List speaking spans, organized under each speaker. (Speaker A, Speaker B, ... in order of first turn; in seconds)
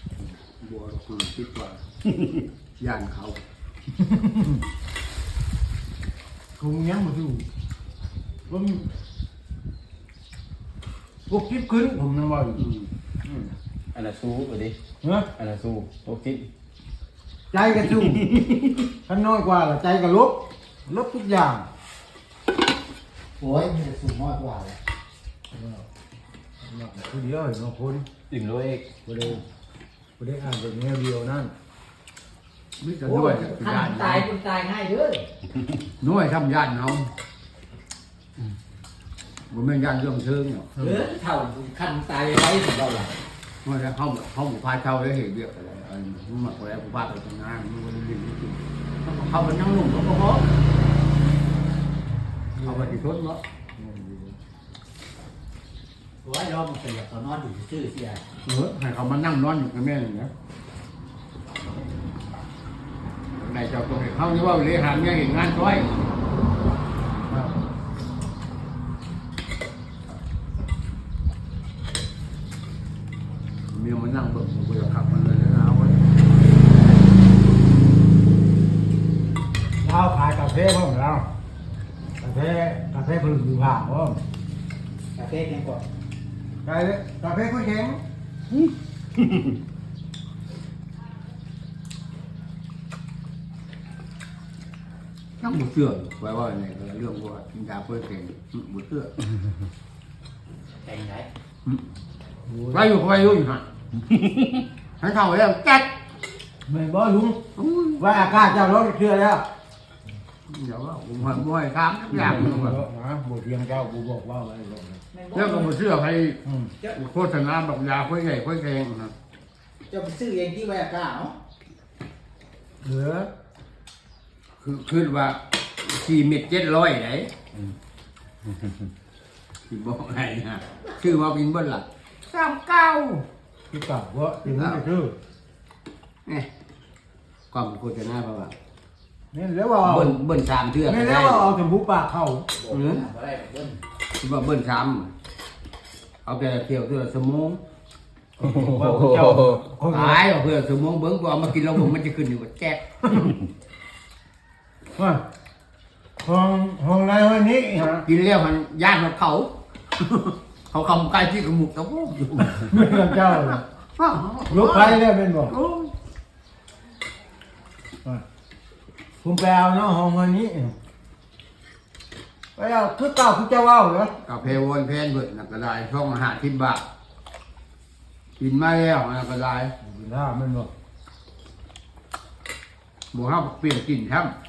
Speaker A: 0.6-1.8, 2.8-3.4, 12.6-12.9, 32.8-34.3, 36.0-37.1, 39.5-40.7, 43.6-50.5, 52.6-53.4, 58.5-60.3, 63.4-65.9, 73.7-76.0, 95.4-99.1, 102.7-103.6, 105.0-105.9, 107.5-108.5, 110.5-112.8, 115.3-119.1, 124.6-127.3, 129.7-133.2, 134.5-134.8, 137.5-138.5, 139.8-141.5, 142.7-143.1, 144.2-145.1, 146.2-147.6, 149.9-153.2, 158.0-165.9, 174.2-176.8, 178.4-179.7, 183.1-184.3
Speaker B: 4.0-4.6, 6.6-7.5, 8.5-8.9, 11.3-12.6, 13.2-13.5, 15.0-15.3, 17.5-18.3, 19.1-21.7, 25.5-25.9, 26.6-28.1, 29.1-29.4, 30.2-31.5, 52.6-53.0, 53.8-54.4, 67.3-67.5, 79.8-81.3, 82.2-84.2, 86.7-88.0, 102.5-102.9, 106.7-107.5, 108.0-109.5, 112.2-115.0, 116.5-116.7, 122.8-123.3, 133.7-135.2, 139.3-140.2, 140.9-142.5, 148.4-150.2, 155.0-155.2, 156.2-158.1, 162.4-163.6, 164.5-165.5, 169.2-170.8, 172.6-174.2, 179.8-180.7
Speaker C: 13.9-14.8, 15.4-16.5, 28.3-28.9, 148.4-149.6
Speaker D: 23.4-24.8, 33.0-35.3, 40.8-43.2, 56.2-58.2, 85.2-85.8, 100.8-101.3, 115.1-115.8, 119.9-121.3, 142.6-143.8